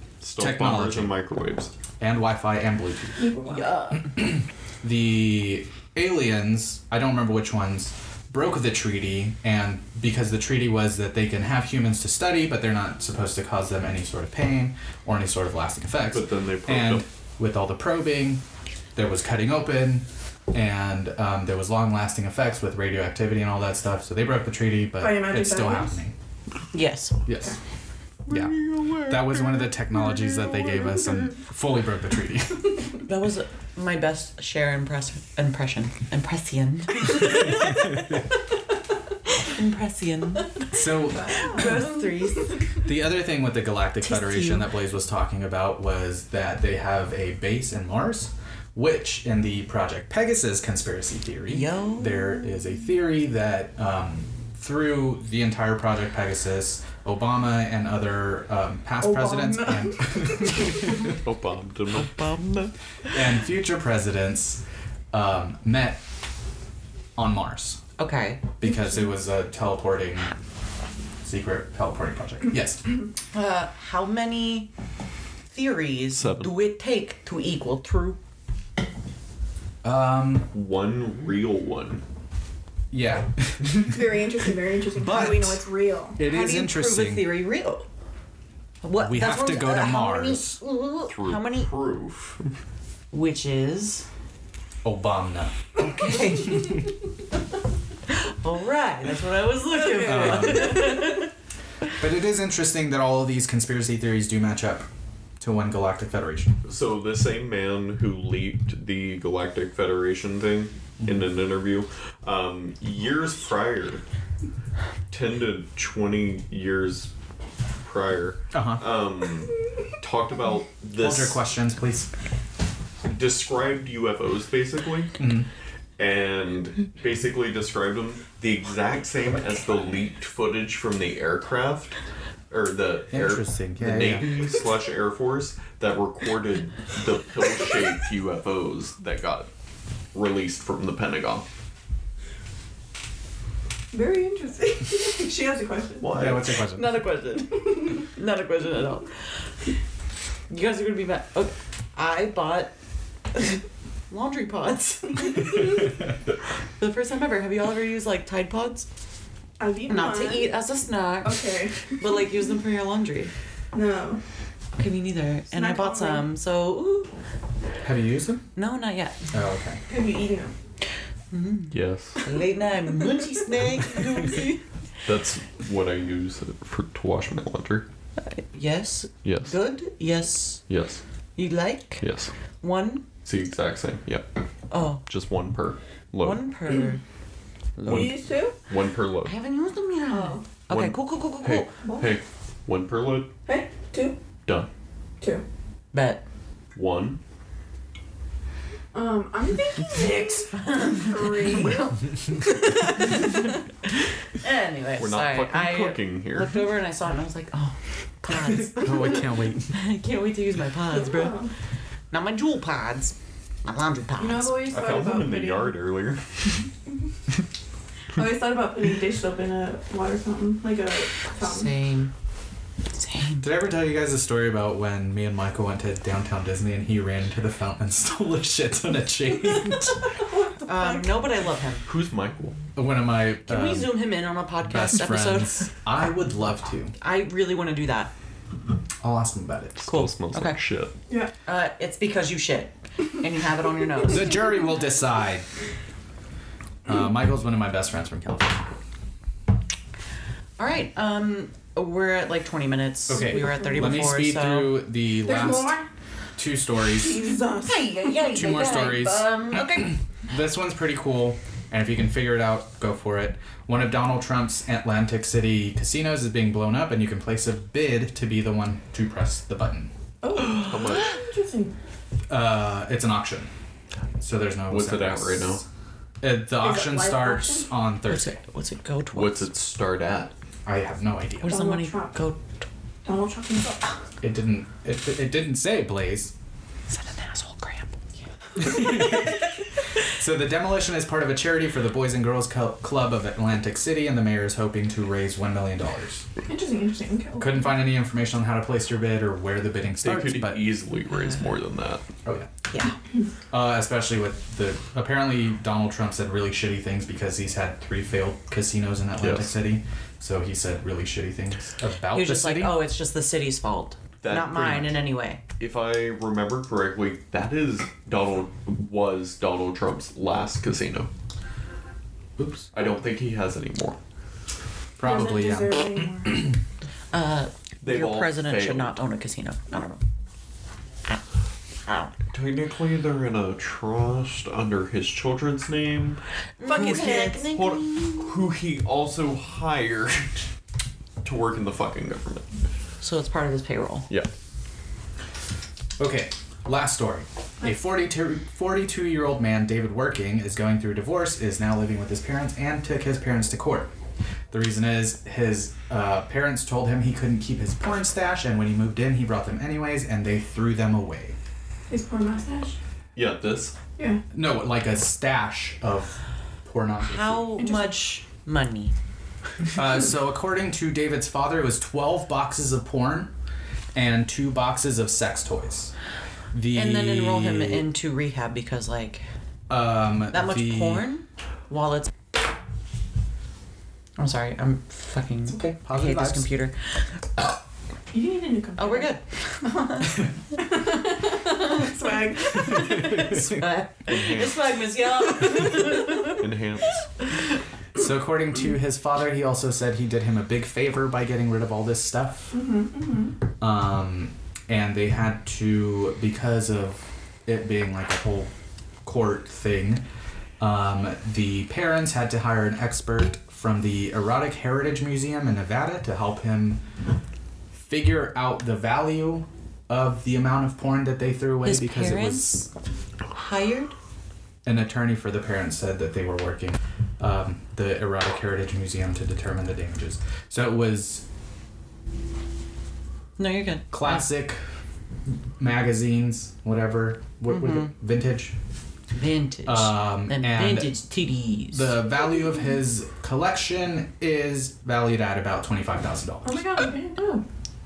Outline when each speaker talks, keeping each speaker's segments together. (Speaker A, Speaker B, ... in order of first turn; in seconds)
Speaker A: 0.2-1.7, 16.1-17.0, 28.3-31.3, 61.1-62.7, 76.1-76.5, 80.5-82.0, 91.1-92.5, 106.6-114.0, 115.1-117.1, 117.8-121.4, 123.0-125.2, 126.0-131.9, 132.5-139.5, 140.1-141.5, 146.0-146.5, 171.7-172.2, 175.0-177.9, 179.2-179.6, 180.7-181.0, 182.0-182.3, 183.2-184.3, 185.1-186.4, 187.8-189.3, 190.7-193.3, 196.7-197.2, 205.0-206.6, 214.7-216.6, 231.9-232.6, 239.8-240.9, 270.6-271.1, 274.7-275.6, 279.1-280.3, 300.0-302.0, 309.2-309.5, 314.2-315.0, 315.6-321.1, 322.7-324.0, 327.8-328.9, 332.3-336.2, 336.7-340.4, 341.2-342.5, 363.1-363.7, 394.0-394.8, 396.3-397.1
Speaker B: 0.4-1.1, 2.0-3.3, 4.2-18.4, 18.9-26.1, 27.2-27.6, 28.3-32.9, 40.7-41.7, 42.8-61.2, 63.1-66.0, 67.2-67.8, 68.6-70.3, 71.2-72.8, 79.8-80.5, 82.9-84.2, 84.9-85.6, 86.2-87.4, 89.0-90.6, 94.8-95.6, 100.0-101.0, 102.0-104.9, 105.4-106.6, 118.5-118.9, 121.0-122.1, 125.2-125.5, 133.1-134.4, 146.1-147.0, 167.8-168.4, 169.3-169.8, 208.5-209.7, 223.4-230.1, 232.8-233.9, 234.6-236.9, 239.0-239.8, 244.0-245.4, 246.8-248.7, 253.1-255.8, 256.4-257.3, 258.3-269.9, 272.3-273.5, 274.2-275.6, 276.2-278.4, 280.6-281.6, 284.2-286.3, 288.6-289.4, 290.1-296.2, 297.4-300.8, 302.2-302.5, 303.5-312.8, 322.4-322.7, 325.0-326.1, 346.0-353.9, 354.5-361.4, 364.3-367.6, 369.7-373.3, 373.9-375.9, 376.5-377.9, 379.7-381.1, 385.7-386.5, 392.9-393.7, 397.9-402.6, 403.6-408.5, 409.0-410.0, 410.6-416.8, 417.8-422.7, 424.6-431.2, 433.9-434.6, 435.6-438.5, 439.6-441.0, 441.7-446.7
Speaker C: 3.2-3.7, 25.0-26.0, 41.1-42.8, 59.0-60.8, 68.6-69.1, 83.8-86.2, 99.7-101.2, 143.9-146.1, 147.5-148.1, 155.3-155.8, 159.6-160.5, 161.2-161.9, 163.7-164.2, 165.5-166.3, 169.9-170.5, 187.8-188.6, 190.1-190.5, 191.8-192.1, 193.4-194.2, 198.9-202.4, 203.0-203.3, 210.9-211.5, 214.2-215.7, 218.1-221.8, 230.1-231.2, 253.1-254.1, 255.2-255.9, 257.0-258.2, 270.2-271.7, 276.6-277.7, 281.4-282.2, 283.0-283.9, 288.6-289.0, 296.4-297.8, 325.0-326.5, 336.6-337.5, 361.9-362.8, 367.6-368.0, 388.1-389.1, 390.6-393.3, 402.5-403.3, 446.4-447.4
Speaker D: 3.4-4.1, 26.7-27.2, 33.0-38.0, 39.5-42.6, 44.0-44.7, 51.5-52.3, 61.9-62.7, 68.0-68.5, 73.3-74.7, 75.5-78.2, 86.2-87.8, 88.8-91.7, 93.1-94.0, 95.8-96.8, 98.1-101.3, 146.7-149.2, 150.5-152.7, 153.3-155.9, 156.8-158.9, 159.9-163.3, 164.8-167.1, 168.6-169.2, 171.3-174.6, 178.2-180.6, 181.3-182.1, 182.6-183.0, 184.7-185.0, 186.2-187.0, 189.2-191.7, 195.9-196.2, 199.8-203.4, 204.4-211.4, 212.1-214.8, 221.4-222.1, 222.9-223.5, 230.7-231.9, 233.4-235.6, 237.0-238.1, 239.8-240.6, 241.4-244.4, 250.6-254.8, 257.6-260.0, 278.1-279.5, 281.4-282.4, 286.9-287.9, 302.7-303.0, 312.1-315.4, 327.1-330.0, 331.9-332.1, 336.6-338.3, 343.0-344.1, 367.1-368.9, 376.7-379.2, 380.3-382.1, 384.2-386.7, 388.8-390.3, 392.5-396.4, 421.6-422.6, 423.3-423.9, 433.4-434.3, 437.5-437.9, 439.1-441.9